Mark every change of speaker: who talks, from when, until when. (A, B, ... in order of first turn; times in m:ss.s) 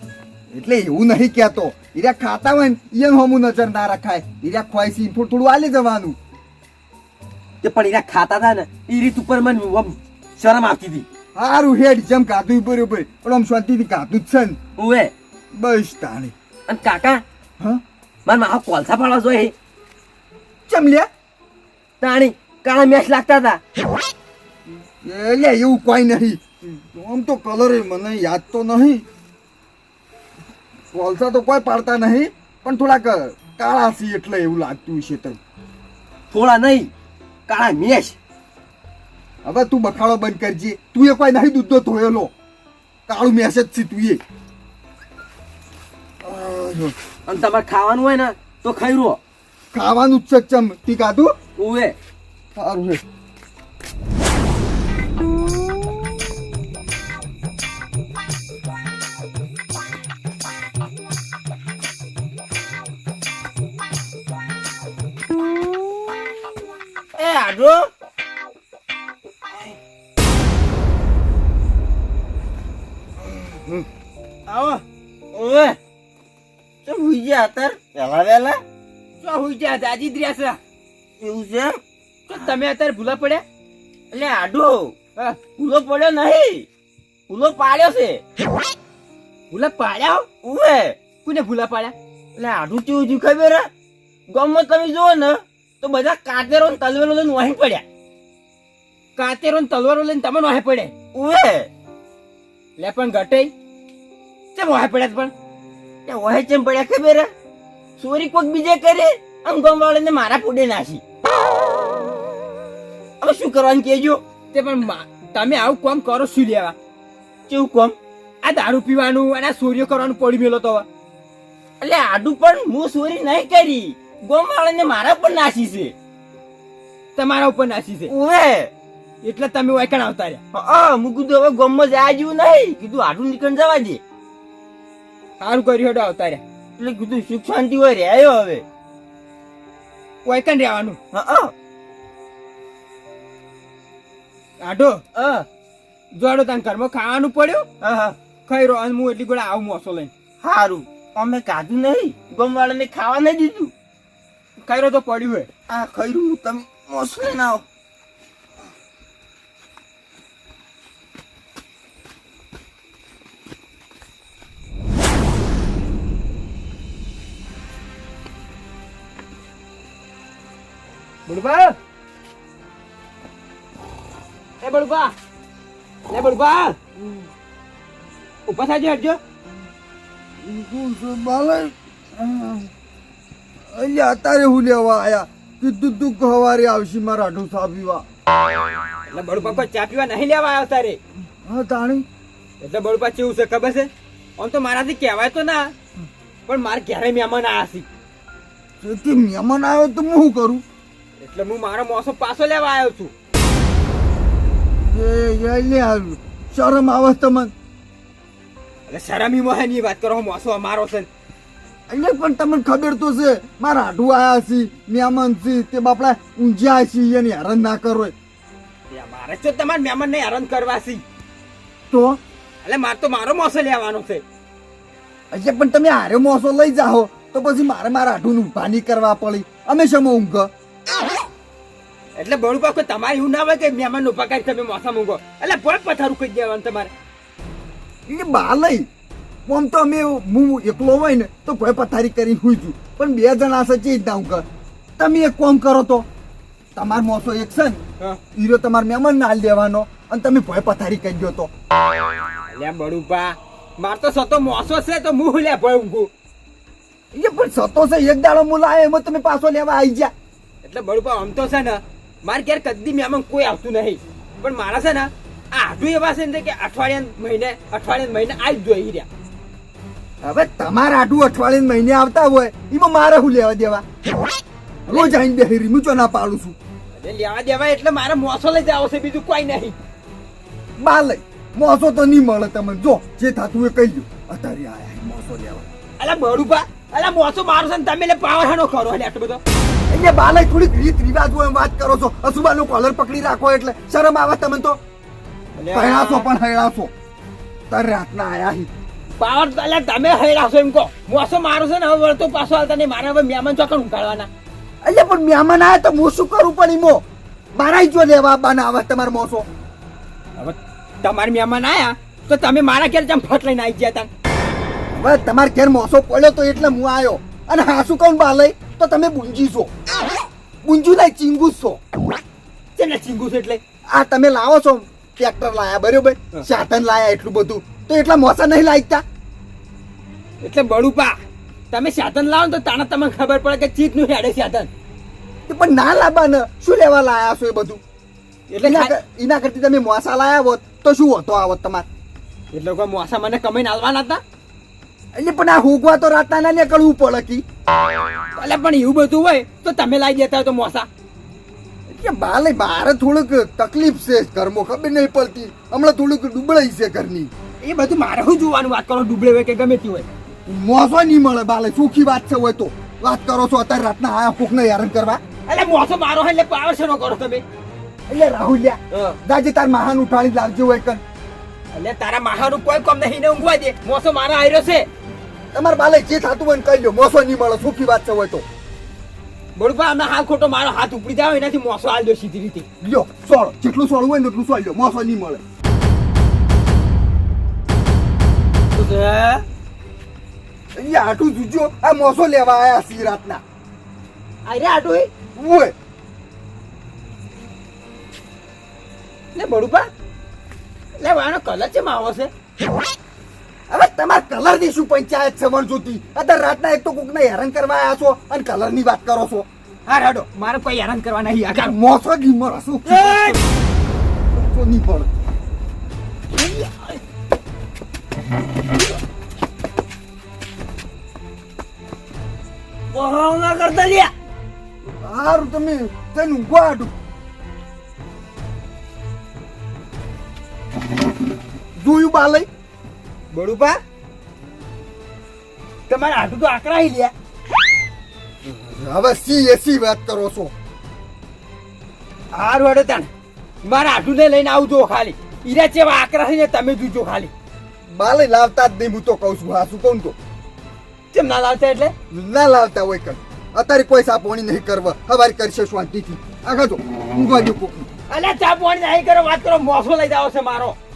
0:00.5-0:06.2 A
0:07.6-0:11.1 B
0:11.4-0:14.6 A
0:14.8-0:15.1 B
0:15.5-0:16.3 A
0:16.7-0:17.2 B
0:18.3-0:19.5 B
0:20.7-0:21.1 A
0:22.0-0:23.6 B
0:25.0-0:29.0 A
0:30.9-0:35.4 A
0:36.3-0:36.9 B
0:37.5-0:38.2 B
0:39.4-0:42.3 A
0:43.1-0:44.2 A
0:46.2-0:47.0 A
0:47.3-0:49.2 B
0:49.7-0:51.4 A
0:51.6-0:52.0 B
0:52.6-0:53.0 A
1:07.2-1:07.9 C
1:14.5-1:14.8 D
1:15.3-1:15.8 C
1:16.8-1:18.6 C
1:19.2-1:20.6 D
1:21.2-1:21.8 C
1:22.3-1:23.4 D
1:24.1-1:25.0 C
1:25.6-1:26.7 C
1:27.3-1:28.2 C
1:29.5-1:30.3 D
1:30.4-1:31.0 C
1:31.2-1:32.0 D
1:32.4-1:33.7 C
1:34.3-1:37.8 C
1:39.2-1:40.9 D
1:41.1-1:41.7 C
1:42.8-1:43.5 D
1:44.6-1:45.3 D
1:46.1-1:47.3 C
1:48.0-1:51.0 C
1:53.2-1:54.2 C
1:54.5-1:56.8 D
1:57.5-1:58.0 C
1:58.4-2:00.9 D
2:01.8-2:05.9 C
2:07.2-2:08.1 D
2:08.1-2:08.7 C
2:09.2-2:10.4 D
2:10.5-2:14.0 C
2:15.4-2:16.4 D
2:16.8-2:18.6 C
2:20.2-2:21.0 D
2:21.1-2:21.5 C
2:24.6-2:25.0 D
2:25.2-2:25.5 C
2:26.1-2:27.8 D
2:27.8-2:28.2 C
2:28.5-2:30.1 D
2:30.4-2:33.7 C
2:34.6-2:35.5 D
2:35.7-2:37.6 C
2:51.3-2:51.8 D
2:54.6-2:55.1 D
2:56.1-2:56.8 D
2:58.5-2:59.2 D
3:00.4-3:02.7 A
3:03.7-3:08.0 A
3:09.1-3:11.0 D
3:11.5-3:12.1 A
3:12.6-3:15.7 D
3:16.5-3:17.9 D
3:18.8-3:20.6 A
3:21.2-3:23.1 D
3:24.8-3:27.5 A
3:28.9-3:31.1 D
3:31.9-3:38.1 A
3:38.9-3:41.0 D
3:41.9-3:42.2 A
3:42.6-3:44.2 D
3:45.3-3:50.5 A
3:52.2-3:56.9 D
3:58.1-3:58.9 A
3:59.5-4:04.5 A
4:05.0-4:06.1 A
4:06.8-4:07.8 A
4:08.4-4:11.5 A
4:12.5-4:16.1 D
4:17.1-4:20.1 A
4:20.6-4:29.1 D
4:30.2-4:33.8 A
4:34.9-4:35.2 D
4:34.9-4:36.6 A
4:37.0-4:39.8 D
4:40.8-4:45.7 A
4:46.0-4:49.4 D
4:49.9-4:54.8 A
4:55.6-4:56.3 D
4:55.7-4:56.9 A
4:57.7-4:58.7 A
4:59.2-5:04.3 D
5:04.8-5:07.0 A
5:07.6-5:09.5 A
5:10.4-5:14.1 D
5:14.9-5:20.1 A
5:20.6-5:21.8 A
5:22.8-5:23.6 D
5:23.9-5:29.0 A
5:30.4-5:31.2 D
5:31.7-5:34.7 D
5:35.5-5:37.8 A
5:38.5-5:39.0 D
5:38.6-5:41.9 A
5:42.5-5:44.2 D
5:45.2-5:47.4 A
5:48.4-5:50.9 D
5:51.9-5:57.3 A
5:57.6-6:00.1 D
6:00.5-6:05.2 A
6:05.5-6:07.4 D
6:08.1-6:11.0 A
6:11.7-6:14.9 D
6:15.5-6:18.4 A
6:19.6-6:22.7 D
6:22.8-6:25.4 A
6:28.8-6:29.4 D
6:30.8-6:33.4 A
6:34.5-6:35.1 D
6:35.4-6:35.7 A
6:39.4-6:39.9 D
6:41.0-6:42.3 D
6:43.7-6:49.5 A
6:49.9-6:51.8 D
6:51.6-6:53.4 A
6:52.9-6:53.4 D
6:54.3-6:55.1 A
6:56.4-6:56.9 D
7:02.9-7:04.1 D
7:04.9-7:06.9 A
7:11.8-7:12.5 A
7:13.3-7:13.8 D
7:15.9-7:17.1 D
7:18.6-7:20.5 A
7:22.3-7:23.1 D
7:23.6-7:27.3 D
7:27.9-7:30.2 A
7:31.1-7:31.9 D
7:32.1-7:37.9 A
7:38.1-7:40.8 D